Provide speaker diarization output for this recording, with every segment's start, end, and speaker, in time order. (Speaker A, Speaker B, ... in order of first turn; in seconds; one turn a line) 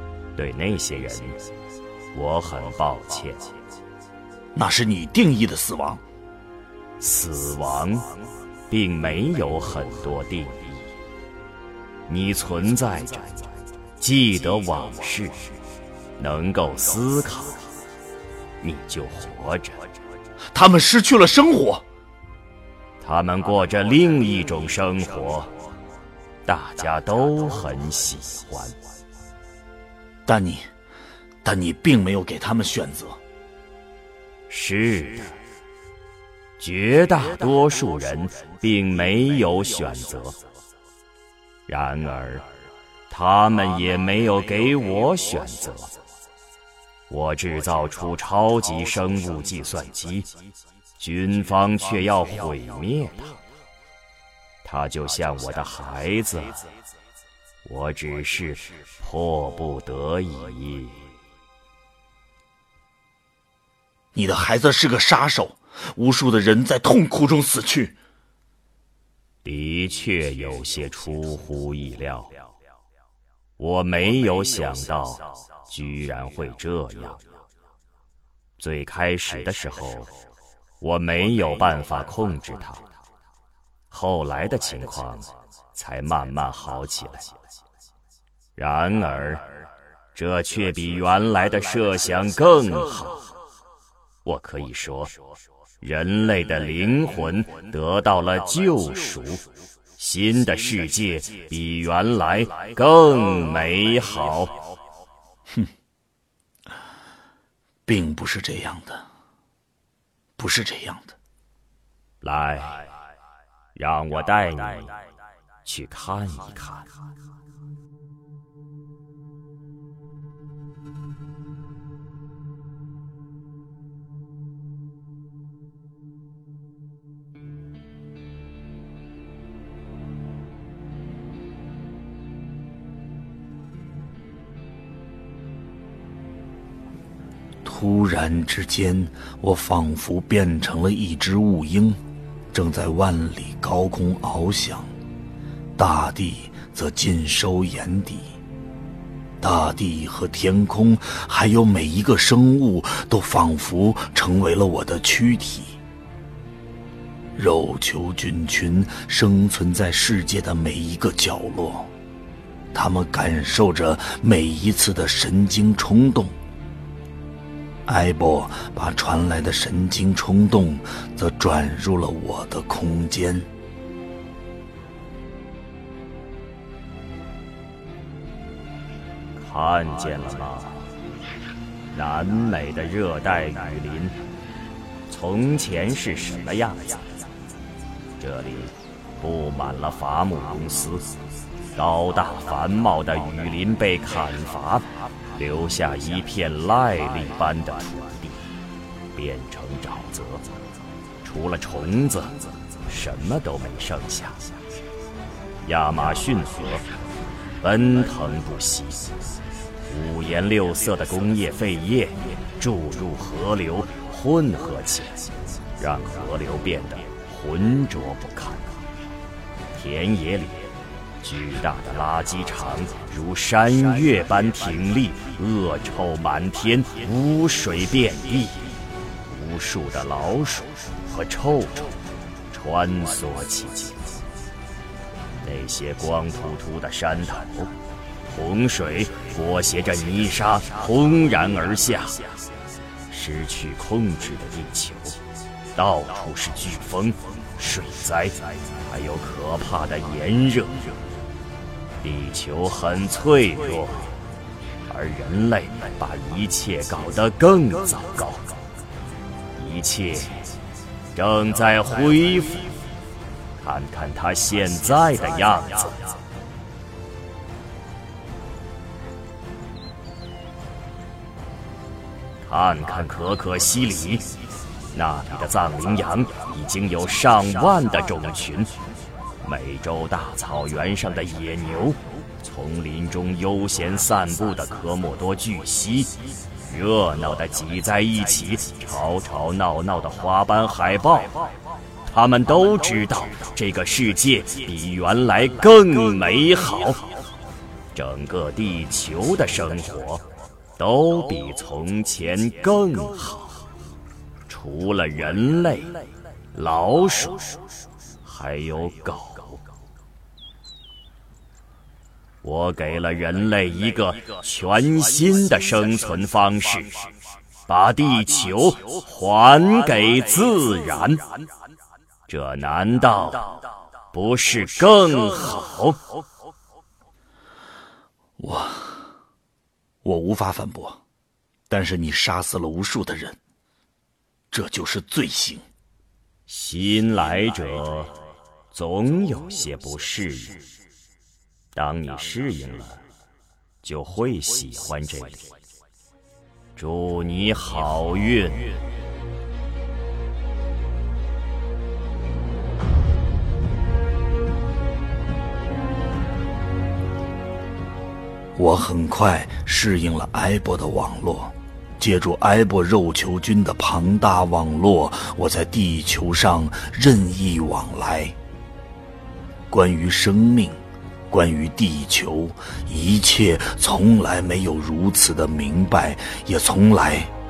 Speaker A: 0.3-1.4
Speaker A: 2.1-3.6
Speaker B: 4.5-6.0
Speaker A: 7.0-8.1
Speaker A: 8.7-10.9
Speaker A: 12.1-13.5
Speaker A: 14.0-15.5
Speaker A: 16.2-17.6
Speaker A: 18.6-19.9
Speaker B: 20.5-21.8
Speaker A: 23.0-25.5
Speaker A: 26.4-28.8
Speaker B: 30.2-30.7
Speaker B: 31.4-33.2
Speaker A: 34.5-35.3
Speaker A: 36.6-40.4
Speaker A: 41.7-42.4
Speaker A: 43.1-45.9
Speaker A: 47.1-50.3
Speaker A: 51.0-53.4
Speaker A: 54.6-56.7
Speaker A: 57.6-61.0
Speaker B: 64.1-68.0
Speaker A: 69.4-72.3
Speaker A: 73.6-77.2
Speaker A: 78.6-80.1
Speaker A: 80.8-82.8
Speaker A: 83.9-87.3
Speaker A: 88.5-89.6
Speaker A: 90.1-93.3
Speaker A: 94.2-95.1
Speaker A: 95.8-99.4
Speaker A: 100.0-104.8
Speaker B: 107.8-109.0
Speaker B: 110.4-111.1
Speaker A: 112.2-112.9
Speaker A: 113.8-114.9
Speaker A: 115.6-116.9
Speaker B: 137.6-142.0
Speaker B: 142.5-144.9
Speaker B: 145.8-148.3
Speaker B: 149.4-155.8
Speaker B: 157.3-161.9
Speaker B: 162.7-166.3
Speaker B: 167.8-173.5
Speaker A: 179.4-180.8
Speaker A: 181.9-184.1
Speaker A: 185.1-187.0
Speaker A: 188.2-191.0
Speaker A: 191.8-198.4
Speaker A: 199.1-200.4
Speaker A: 201.2-202.3
Speaker A: 202.9-204.4
Speaker A: 205.6-206.8
Speaker A: 207.6-209.1
Speaker A: 209.9-218.8
Speaker A: 219.7-220.7
Speaker A: 221.2-228.7
Speaker A: 229.3-231.9
Speaker A: 232.5-234.0
Speaker A: 235.4-237.7
Speaker A: 238.3-242.2
Speaker A: 243.1-245.2
Speaker A: 245.8-250.9
Speaker A: 252.0-254.1
Speaker A: 254.9-258.5
Speaker A: 259.6-260.5
Speaker A: 261.1-262.8
Speaker A: 263.6-266.0
Speaker A: 272.4-274.2
Speaker A: 274.9-278.7
Speaker A: 279.4-286.1
Speaker A: 286.7-291.3
Speaker A: 292.1-297.1
Speaker A: 297.9-300.2
Speaker A: 300.8-303.6
Speaker A: 304.5-306.0
Speaker A: 306.5-307.6
Speaker A: 308.2-309.6
Speaker A: 312.4-317.1
Speaker A: 317.7-321.2
Speaker A: 322.3-326.0
Speaker B: 328.4-329.1
Speaker B: 330.0-331.0
Speaker B: 331.7-333.4
Speaker B: 334.5-335.6
Speaker A: 336.5-338.1
Speaker A: 338.7-340.6
Speaker A: 341.7-343.0
Speaker A: 343.8-345.5
Speaker A: 346.8-348.7
Speaker B: 358.5-368.4
Speaker B: 369.7-377.3